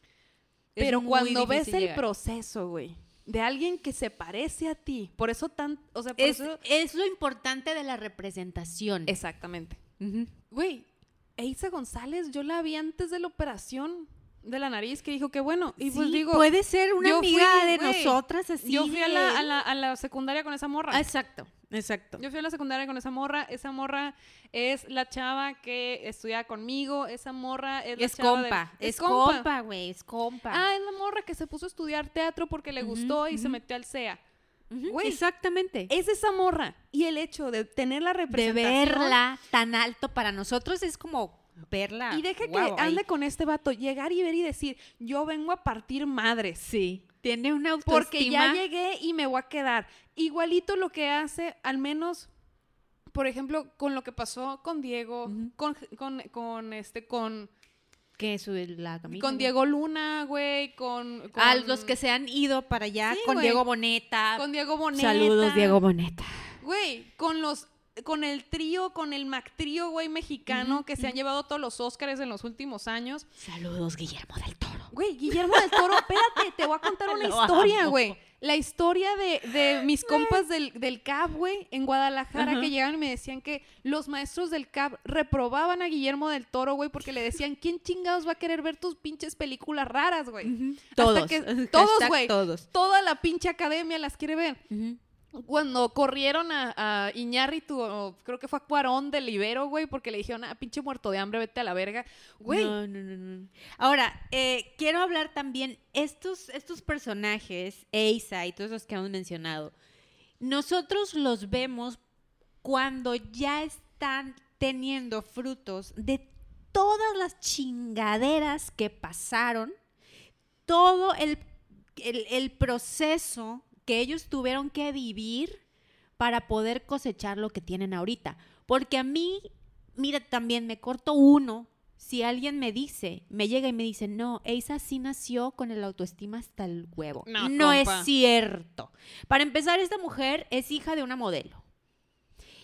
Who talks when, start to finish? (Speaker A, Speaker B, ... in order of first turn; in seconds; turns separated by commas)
Speaker A: 0.8-2.0, Speaker B: 0.8-6.6, Speaker A: 6.2-9.2, Speaker B: 9.1-9.8, Speaker A: 10.0-10.3, Speaker B: 10.5-16.5, Speaker A: 15.8-19.5, Speaker B: 17.0-21.1, Speaker A: 20.9-22.2, Speaker B: 22.2-29.5, Speaker A: 28.0-30.6, Speaker B: 30.5-34.2, Speaker A: 32.8-33.6, Speaker A: 34.7-35.9, Speaker B: 34.9-35.2, Speaker B: 35.9-39.2, Speaker A: 38.3-43.0, Speaker B: 42.1-46.7, Speaker A: 46.6-48.6, Speaker B: 47.9-52.3, Speaker B: 53.1-57.5, Speaker A: 55.3-55.5, Speaker A: 58.2-59.5, Speaker B: 59.1-62.0, Speaker A: 61.3-66.3, Speaker B: 63.1-63.6, Speaker B: 64.3-65.8, Speaker B: 66.6-73.3, Speaker A: 70.5-71.1, Speaker A: 73.4-78.2, Speaker B: 74.9-94.6, Speaker A: 79.7-80.4, Speaker A: 82.3-82.7, Speaker A: 90.4-92.7, Speaker A: 94.7-95.0, Speaker B: 95.3-102.8, Speaker A: 102.5-109.8, Speaker A: 110.4-112.0, Speaker A: 112.6-119.7, Speaker A: 120.7-121.4, Speaker A: 122.0-125.6, Speaker A: 126.2-141.6, Speaker B: 137.2-138.1